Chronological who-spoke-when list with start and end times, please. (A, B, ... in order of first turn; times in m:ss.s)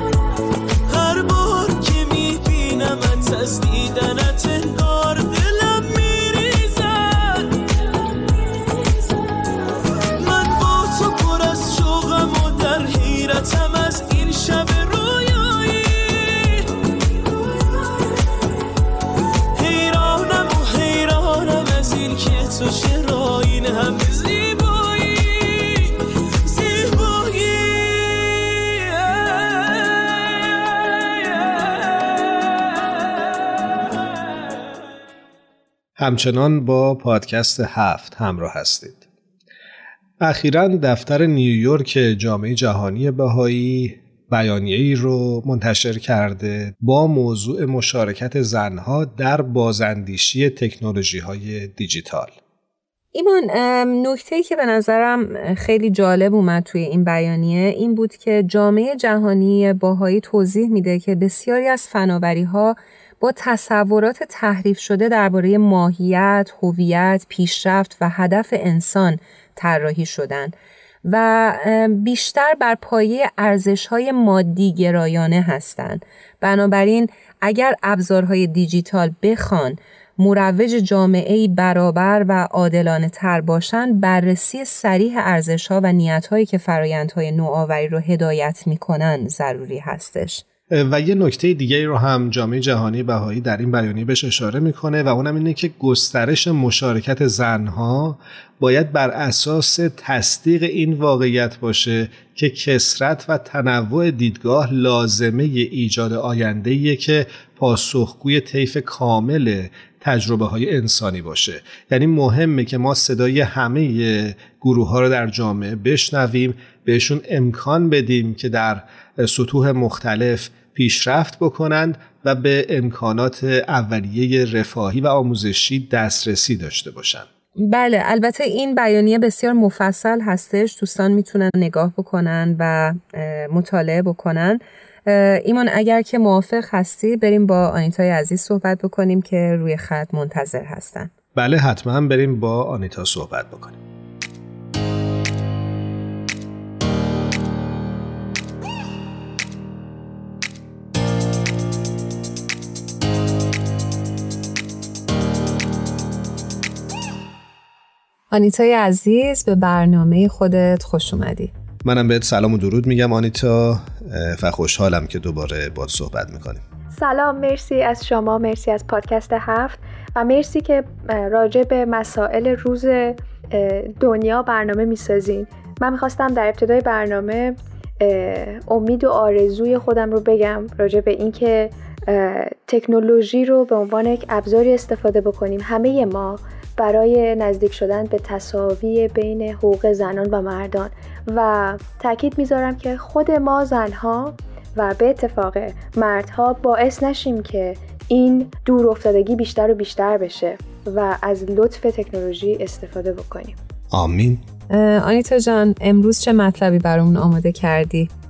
0:00.9-0:07.6 A
0:10.2-0:16.7 A
0:19.6-0:31.7 A
0:36.0-0:39.0 B
0:40.2-0:52.4 B
0:53.1-1:10.5 C
1:11.0-1:30.4 C
1:30.7-2:07.3 B
2:07.6-2:21.1 C
2:21.4-2:23.8 B
2:38.3-2:41.5 C
2:41.8-2:46.6 B
2:46.9-3:23.6 D
3:23.9-3:24.4 B
3:24.7-3:28.1 C